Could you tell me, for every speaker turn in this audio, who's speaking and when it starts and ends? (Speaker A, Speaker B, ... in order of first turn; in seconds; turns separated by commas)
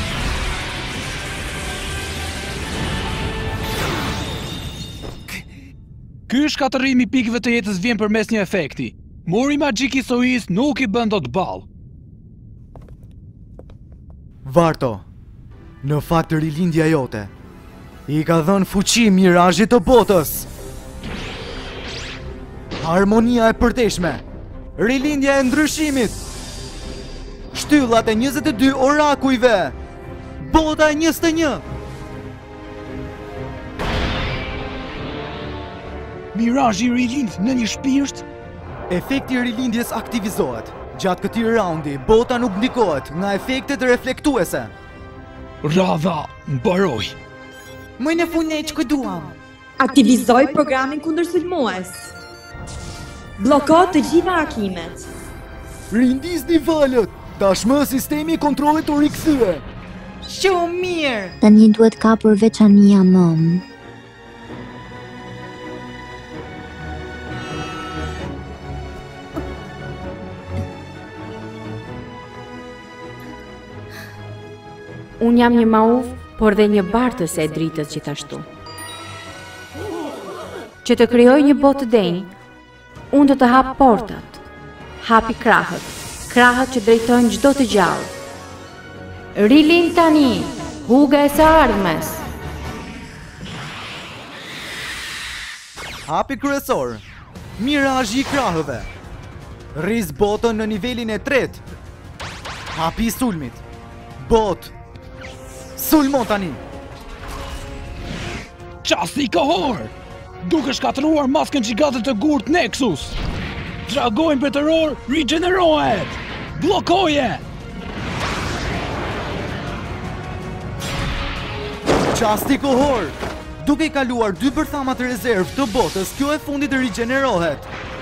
Speaker A: 6.3-11.7, Speaker B: 14.4-15.0, Speaker B: 15.8-17.3, Speaker B: 18.1-20.5, Speaker B: 22.8-24.2, Speaker B: 24.8-26.2, Speaker B: 27.5-29.8, Speaker B: 30.4-31.6, Speaker A: 36.3-38.2, Speaker B: 38.9-44.7, Speaker A: 45.6-47.1, Speaker C: 48.0-49.4, Speaker D: 49.8-52.1, Speaker D: 53.4-55.1, Speaker E: 55.9-59.6, Speaker C: 60.2-61.4, Speaker F: 61.4-63.6, Speaker G: 75.2-78.5, Speaker G: 80.8-82.3, Speaker G: 83.1-84.4, Speaker G: 85.0-88.1, Speaker G: 89.3-92.2, Speaker B: 96.1-97.0, Speaker B: 97.6-98.9, Speaker B: 99.7-101.6, Speaker B: 102.7-103.6, Speaker B: 104.2-104.7, Speaker B: 105.8-106.6, Speaker A: 108.8-113.2, Speaker A: 113.8-117.4, Speaker B: 122.1-127.7